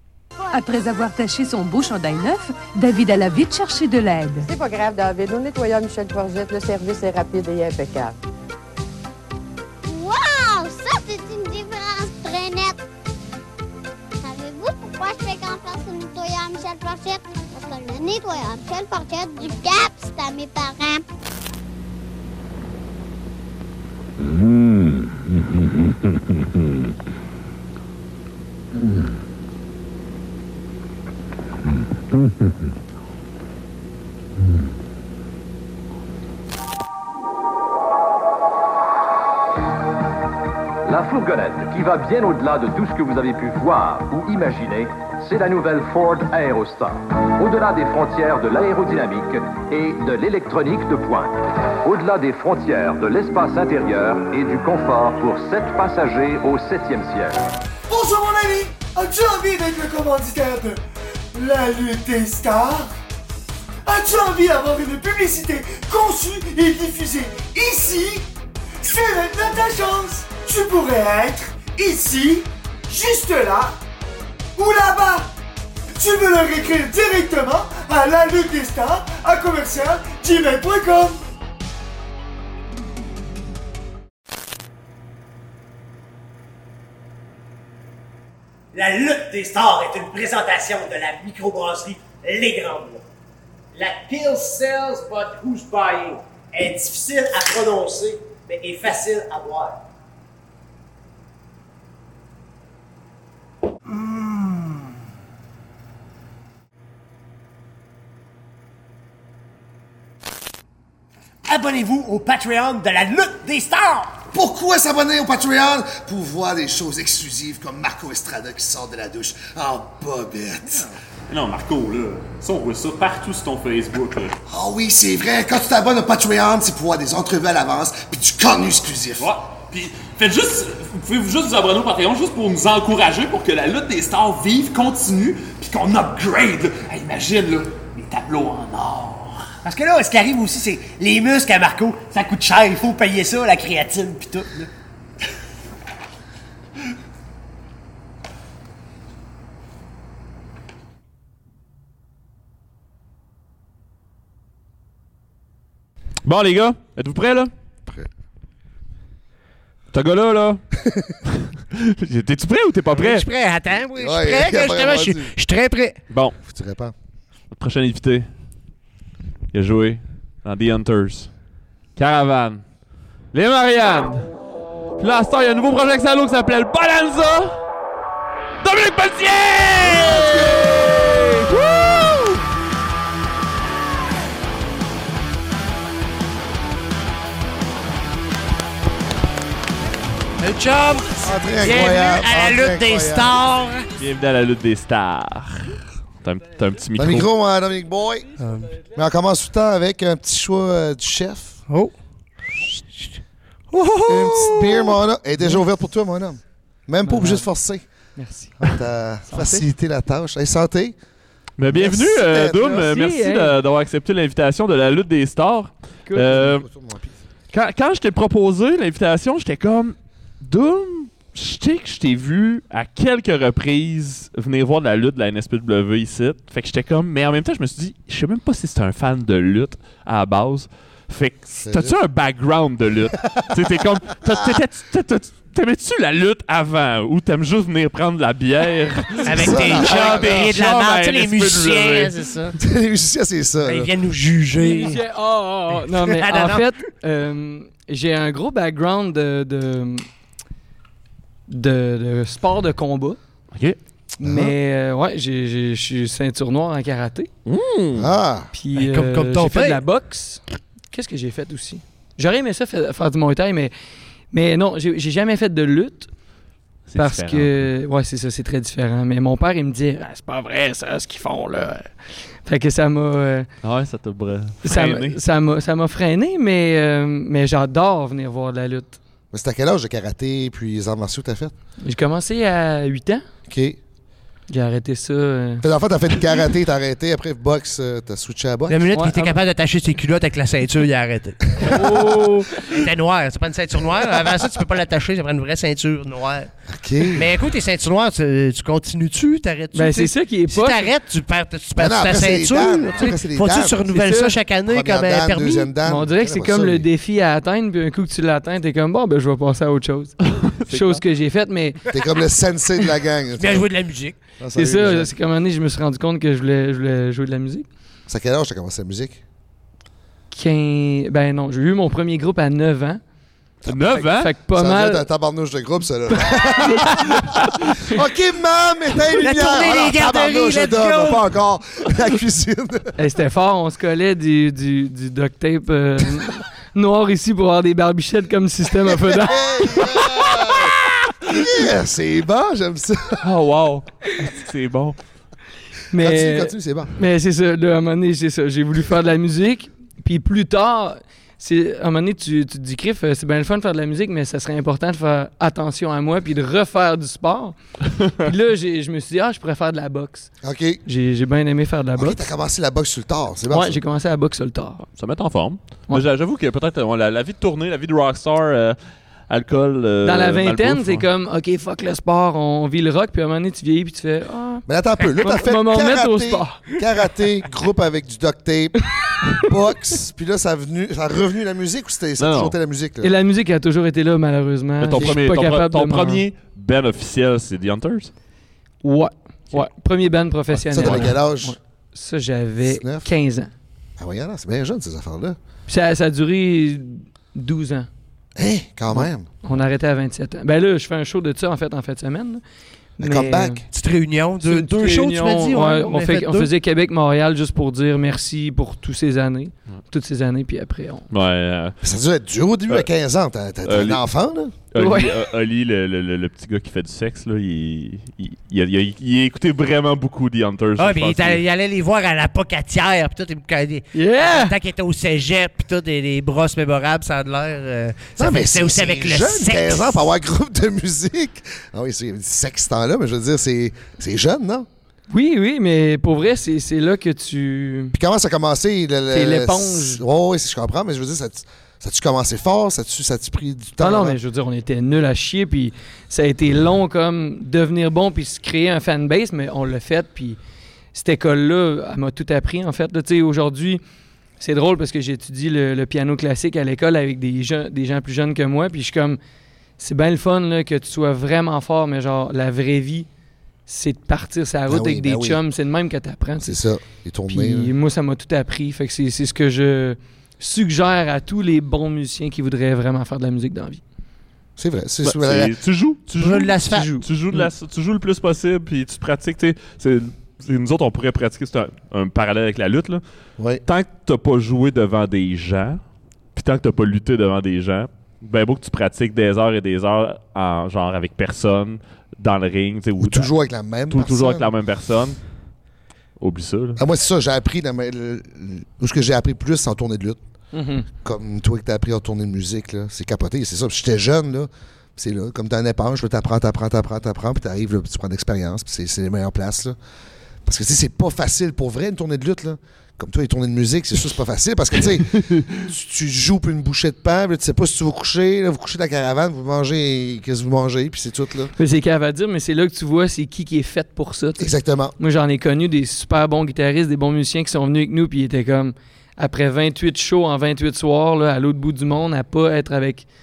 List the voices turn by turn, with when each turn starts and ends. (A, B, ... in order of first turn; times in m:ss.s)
0:00.5-0:04.5 A
0:04.4-0:08.2 B
0:09.8-0:12.8 C
0:14.2-0:21.0 C
0:40.8-0:57.4 D
0:57.9-1:00.8 E
1:01.3-1:02.9 E
1:03.9-1:08.3 E
1:08.8-1:13.8 E
1:14.6-1:15.3 E
1:16.0-1:21.2 E
1:51.6-1:54.0 F
1:54.3-2:00.9 G
2:01.3-2:04.3 H
2:01.3-2:04.3 I
2:04.5-2:09.3 G
2:09.2-2:14.8 I
2:09.5-2:19.6 H
2:19.7-2:24.7 F
2:36.2-2:37.5 I
2:39.9-2:40.6 I
2:40.8-2:41.1 G
2:41.3-2:43.3 I
2:42.9-2:46.0 J
2:44.0-2:45.3 G
2:46.4-2:46.9 G
2:47.5-2:48.3 I
2:49.5-2:51.3 I
2:52.0-2:52.6 I
2:53.3-2:54.3 I
2:55.0-2:57.6 I
2:58.6-3:02.4 I
2:59.8-3:00.7 G
3:10.4-3:13.9 J
3:11.2-3:13.4 G
3:14.0-3:17.3 I
3:17.0-3:21.6 G
3:18.4-3:18.8 J
3:23.7-3:25.0 J
3:24.1-3:27.8 G
3:27.0-3:27.5 K
3:28.2-3:28.6 K
3:28.6-3:31.0 G
3:29.3-3:29.7 K
3:31.6-3:36.7 I
3:31.7-3:32.8 G
3:32.5-3:33.6 K
3:36.1-3:36.5 K
3:36.3-3:37.2 G
3:37.5-4:02.2 I
3:51.6-3:52.0 G
3:59.2-4:02.6 J
3:59.3-4:00.5 G
4:02.6-4:03.9 G
4:03.6-4:05.0 J
4:04.6-4:10.1 K
4:05.9-4:06.7 J
4:11.5-4:13.2 K
4:14.2-4:14.5 G
4:14.2-4:17.3 K
4:17.5-4:18.1 I
4:18.0-4:18.5 G
4:18.5-4:23.7 K
4:18.8-4:19.8 J
4:24.3-4:26.1 K
4:26.9-4:27.6 I
4:27.0-4:31.9 K
4:32.4-4:33.5 K
4:33.6-4:35.2 I
4:34.6-4:39.0 K
4:39.3-4:41.5 G
4:41.8-4:43.2 K
4:43.5-4:43.8 G
4:44.5-4:45.6 K
4:45.6-4:48.9 G
4:48.7-4:51.9 J
4:48.9-4:49.4 K
4:51.6-4:52.7 K
4:52.6-4:56.5 J
4:56.7-4:57.3 G
4:57.1-5:05.7 J
4:59.7-5:00.9 K
5:01.8-5:06.9 G
5:04.0-5:04.3 K
5:05.8-5:11.8 K
5:10.3-5:11.0 I
5:11.9-5:13.7 G
5:13.4-5:14.2 J
5:14.4-5:15.1 G
5:14.6-5:17.7 K
5:18.1-5:19.2 G
5:20.3-5:23.0 K
5:23.6-5:33.0 G
5:23.7-5:24.3 I
5:24.0-5:25.0 K
5:26.2-5:27.2 K
5:29.2-5:31.2 J
5:33.0-5:40.5 K
5:39.1-5:43.2 G
5:43.2-5:45.0 I
5:45.9-5:57.6 K
5:46.0-5:46.9 G
5:58.2-6:00.3 K
6:00.4-6:00.8 G
6:00.8-6:02.2 K
6:02.0-6:03.8 G
6:03.5-6:04.9 K
6:05.0-6:08.8 I
6:09.3-6:11.1 I
6:10.0-6:14.6 K
6:14.7-6:18.8 G
6:15.2-6:16.6 K
6:19.4-6:23.1 G
6:22.2-6:22.6 I
6:23.0-6:26.2 K
6:24.8-6:28.1 I
6:28.8-6:33.5 K
6:30.7-6:31.6 G
6:30.8-6:31.1 I
6:32.6-6:33.1 G
6:34.0-6:35.4 G
6:35.7-6:37.9 K
6:38.4-6:39.3 G
6:38.9-6:42.4 K
6:43.0-6:43.6 K
6:43.0-6:43.6 G
6:43.7-6:46.5 J
6:44.4-6:51.1 K
6:51.1-6:51.8 I
6:51.8-6:54.5 G
6:53.6-6:54.0 I
6:54.7-7:01.4 I
6:54.8-6:55.1 K
7:00.8-7:10.1 J
7:03.9-7:04.5 K
7:08.2-7:14.7 G
7:15.1-7:18.0 K
7:17.9-7:24.2 G
7:19.1-7:20.0 K
7:23.8-7:30.4 K
7:30.9-7:33.8 K
7:34.4-7:39.2 K
7:39.8-7:43.1 K
7:43.7-7:46.6 K
7:44.7-7:45.4 G
7:46.4-7:47.7 G
7:47.3-7:53.8 K
7:54.6-7:55.6 G
7:55.0-8:03.0 I
7:56.2-7:57.0 J
8:03.7-8:05.8 I
8:06.4-8:13.3 I
8:13.0-8:14.5 G
8:13.9-8:15.2 I
8:16.2-8:16.8 I
8:16.8-8:20.2 G
8:20.5-8:20.9 K
8:21.0-8:29.8 G
8:30.4-8:41.5 G
8:41.6-8:53.1 K
8:44.4-8:45.0 G